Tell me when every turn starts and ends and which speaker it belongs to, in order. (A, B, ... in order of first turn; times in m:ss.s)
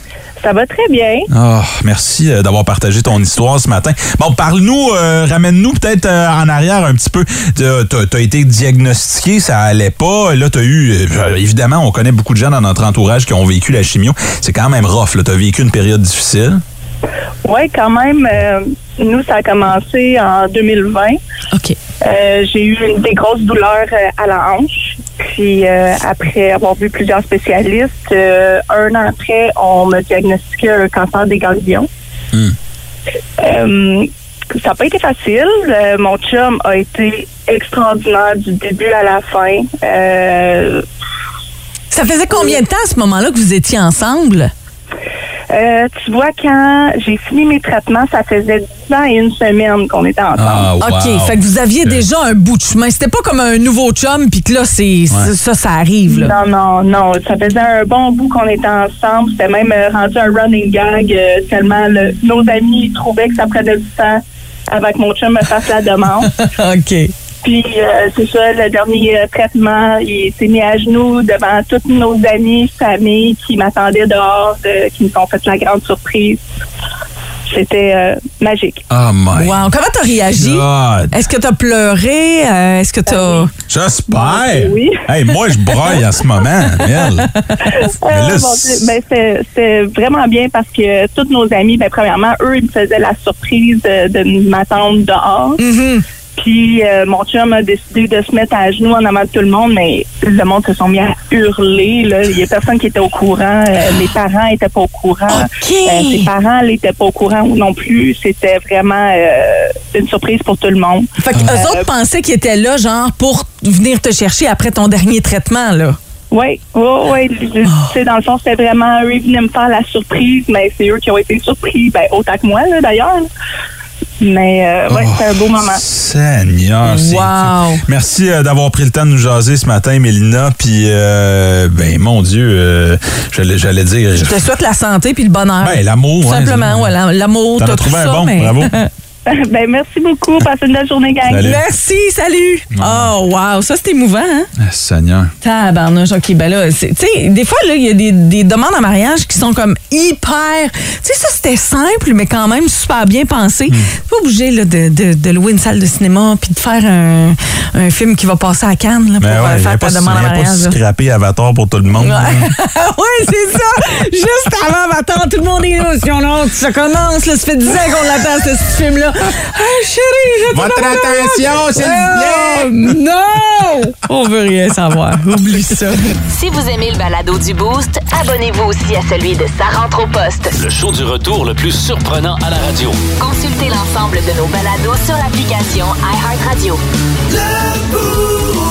0:00.4-0:01.3 A
0:01.3-0:16.6 B
0:17.4-0:21.2 A
0:22.0-0:31.9 A
0:33.4-0:40.9 A
0:41.9-0:44.5 C
0:45.5-0:50.7 A
0:50.4-0:52.0 B
0:50.8-0:56.4 C
0:56.1-1:06.3 A
1:06.2-1:07.1 C
1:07.4-1:16.4 A
1:17.5-1:18.8 A
1:18.9-1:19.6 B
1:19.4-1:23.5 C
1:20.4-1:21.1 B
1:23.1-1:23.5 A
1:23.7-1:27.4 B
1:24.1-1:25.1 A
1:26.8-1:27.8 C
1:27.8-1:35.6 A
1:28.1-1:28.9 B
1:35.6-1:36.0 C
1:36.4-1:51.8 A
1:45.3-1:46.3 C
1:51.2-1:56.0 C
1:56.3-2:03.3 A
2:04.2-2:05.8 A
2:04.9-2:14.5 B
2:06.8-2:07.8 C
2:14.2-2:18.9 C
2:15.6-2:17.0 B
2:17.6-2:18.7 B
2:19.3-2:21.6 A
2:21.3-2:21.6 B
2:21.4-2:24.5 C
2:22.8-2:23.1 B
2:24.6-2:25.3 B
2:25.4-2:40.8 C
2:39.2-2:42.6 B
2:42.0-2:56.2 C
2:51.3-2:52.0 B
2:56.3-3:00.5 D
3:00.5-3:03.1 E
3:03.2-3:06.8 D